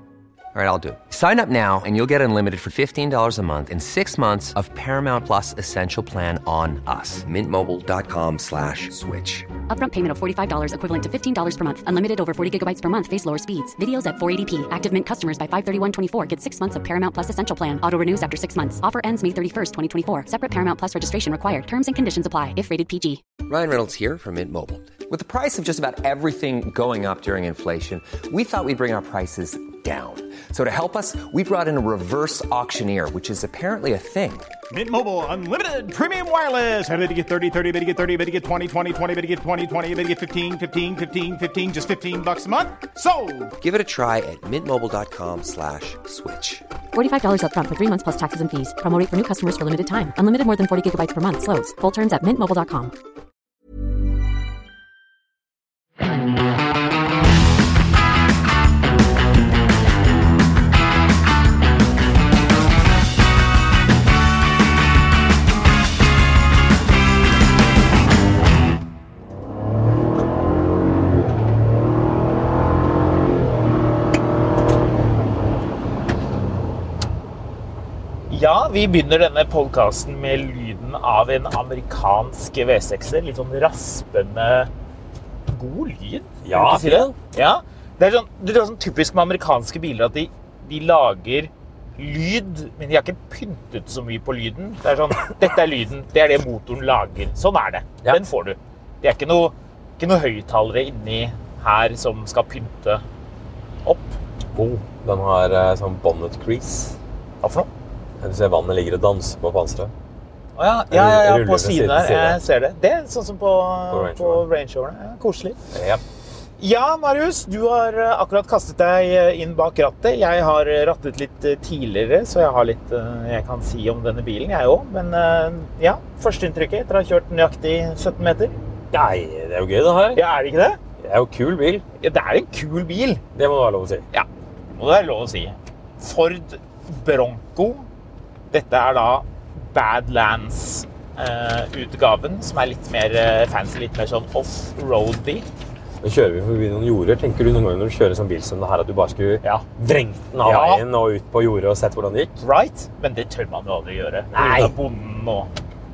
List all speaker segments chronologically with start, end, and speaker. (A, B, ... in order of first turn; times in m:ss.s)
0:00.5-0:09.5 A
0:09.7-0:23.2 B
0:23.4-0:34.5 A
0:34.7-0:43.5 C
0:43.6-0:46.6 A
0:46.9-0:52.9 B
1:18.3-1:24.7 D
1:25.5-1:43.0 D
1:26.4-1:27.1 E
1:43.8-1:44.2 D
1:44.5-1:47.0 E
1:47.4-1:47.7 D
1:48.2-1:49.9 E
1:50.6-1:55.6 D
1:50.9-1:52.4 E
1:53.9-1:54.4 E
1:55.7-1:56.0 E
1:56.6-2:08.5 D
2:08.9-2:10.2 E
2:10.1-2:10.8 D
2:11.0-2:11.8 E
2:12.0-2:13.2 D
2:13.4-2:14.1 E
2:14.8-2:17.9 D
2:18.5-2:25.5 D
2:26.0-2:32.4 E
2:30.4-2:30.8 D
2:32.4-2:35.5 D
2:34.3-2:34.8 E